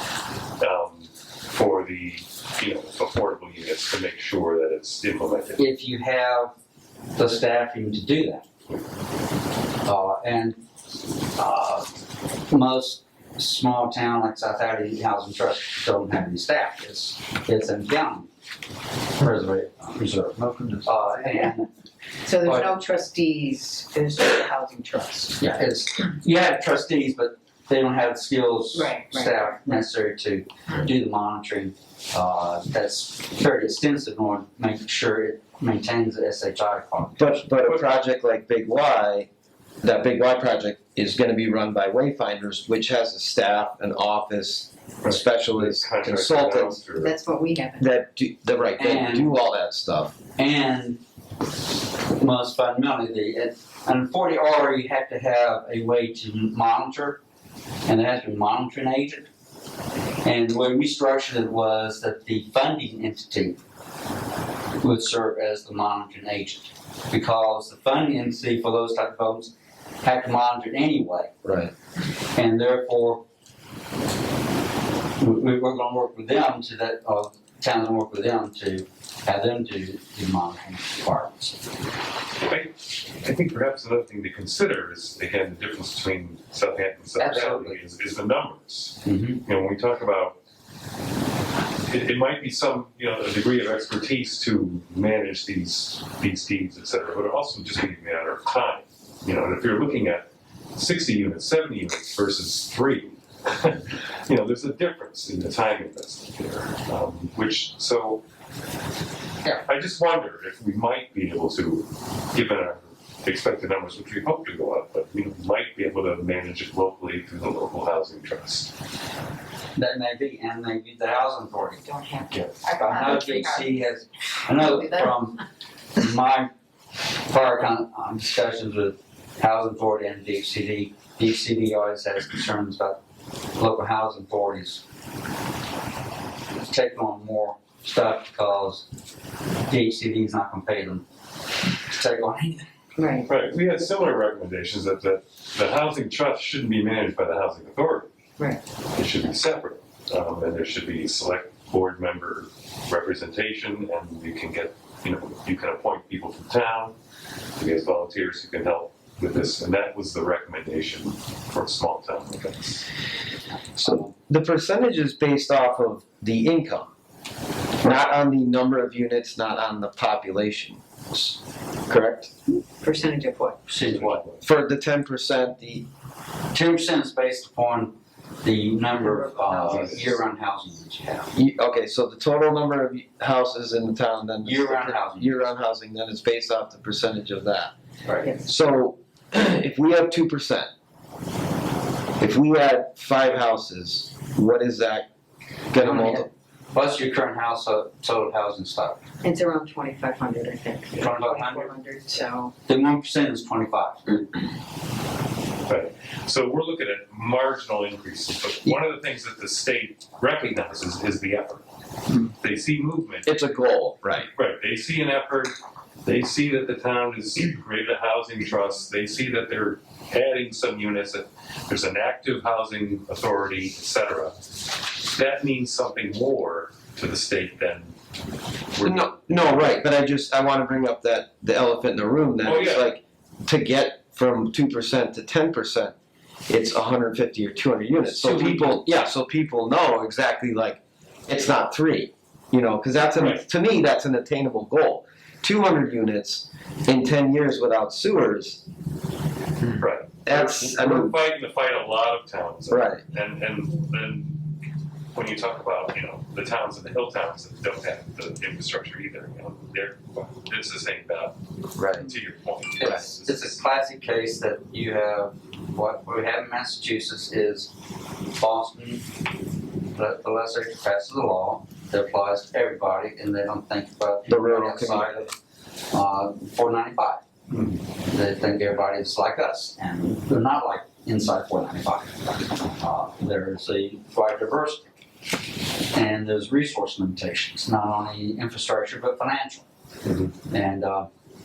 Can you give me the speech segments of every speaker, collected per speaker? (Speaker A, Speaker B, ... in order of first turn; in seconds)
Speaker A: 0.6-5.6, 45.0-47.1, 82.4-90.4, 91.9-108.2, 109.5-118.7, 143.2-148.1, 148.9-156.9, 157.6-162.9, 173.8-174.4, 205.7-211.6, 212.3-213.4, 214.3-215.5, 216.0-224.3, 225.0-227.9, 228.7-229.6, 232.4-232.9, 249.7-254.4, 255.1-261.4, 261.9-263.4, 277.5-277.8, 290.1-290.3
Speaker B: 5.6-6.5, 7.2-8.4, 9.8-10.6, 11.3-11.9, 12.5-18.3, 19.2-21.7, 22.4-22.7, 25.4-37.4, 48.8-49.3, 50.4-51.0, 52.2-57.2, 57.8-59.3, 60.2-63.6, 64.8-71.3, 72.3-73.2, 75.2-81.5, 87.2-87.8, 89.0-89.4, 119.8-125.4, 126.0-126.5, 127.3-133.0, 133.6-134.8, 136.6-138.8, 139.7-141.0, 141.9-142.7, 173.7-174.2, 176.5-181.3, 184.4-185.3, 195.8-199.0, 201.0-201.7, 202.7-204.2, 238.0-238.8, 262.8-267.7, 268.3-269.0, 269.9-275.3, 275.9-277.2, 278.0-284.8, 285.9-289.6, 290.5-291.1
Speaker C: 22.2-25.4, 28.7-29.8, 47.0-47.9, 121.8-123.9, 124.5-125.1, 143.0-143.3, 172.8-173.6, 179.0-180.2, 199.2-202.5
Speaker D: 37.2-39.3, 39.8-46.8, 47.8-50.1, 71.4-71.7, 163.8-166.9, 167.8-171.4, 171.9-172.3, 174.4-175.9, 181.3-187.7, 188.4-190.7, 192.2-195.1, 195.7-196.3, 213.2-214.3, 228.8-235.9, 236.5-248.6, 250.2-251.1, 252.7-253.0, 261.8-262.1, 274.3-275.1